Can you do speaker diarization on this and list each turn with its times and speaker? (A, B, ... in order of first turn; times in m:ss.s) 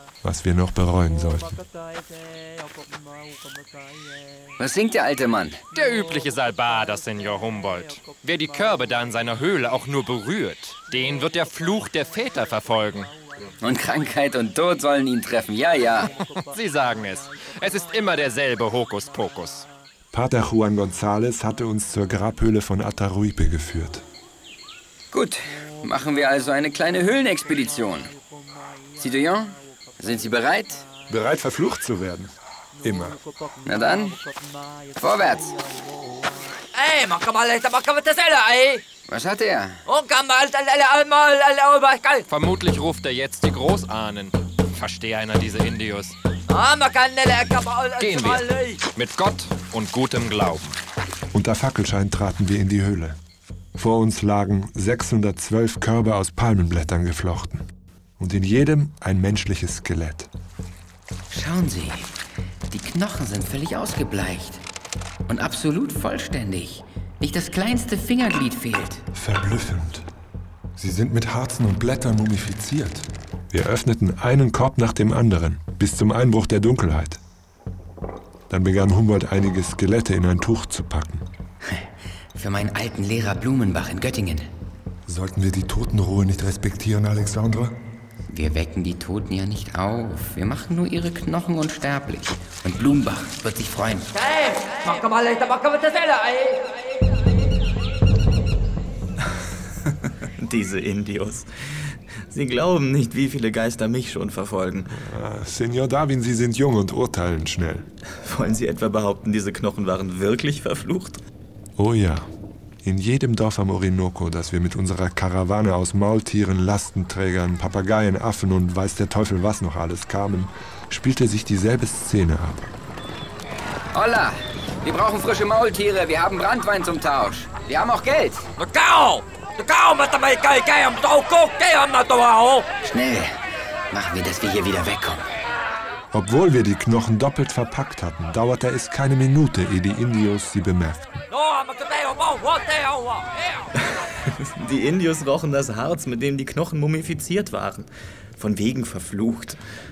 0:00.2-0:01.6 A
0:04.6-0:05.6 B
0:05.7-0:13.1 C
0:13.6-0:16.1 B
0:16.3-0:19.7 C
0:20.1-0:24.0 A
0:25.1-0:28.1 B
0:29.0-0:30.8 B
0:31.1-0:33.2 A
0:33.6-0:34.2 B
0:35.0-0:35.6 B
0:36.7-0:38.8 D
0:39.1-0:39.8 B
0:39.9-0:42.2 D
0:42.3-0:46.2 C
0:46.5-0:48.8 D
0:48.0-0:50.8 C
0:51.3-0:53.2 A
0:53.8-0:57.6 A
0:58.2-1:00.3 A
1:01.3-1:02.1 B
1:02.7-1:04.6 B
1:05.3-1:09.0 B
1:09.1-1:10.0 A
1:10.8-1:17.2 A
1:18.5-1:21.3 A
1:22.3-1:24.5 B
1:25.1-1:27.8 A
1:28.3-1:34.1 B
1:34.2-1:37.1 D
1:39.8-1:44.9 E
1:45.0-1:47.9 A
1:48.2-1:51.2 E
1:51.8-1:52.3 A
1:52.8-2:02.6 A
2:03.9-2:08.4 B
2:08.6-2:12.6 D
2:12.8-2:13.4 B
2:13.9-2:15.3 B
2:16.1-2:21.2 A
2:21.3-2:23.7 D
2:23.8-2:29.6 E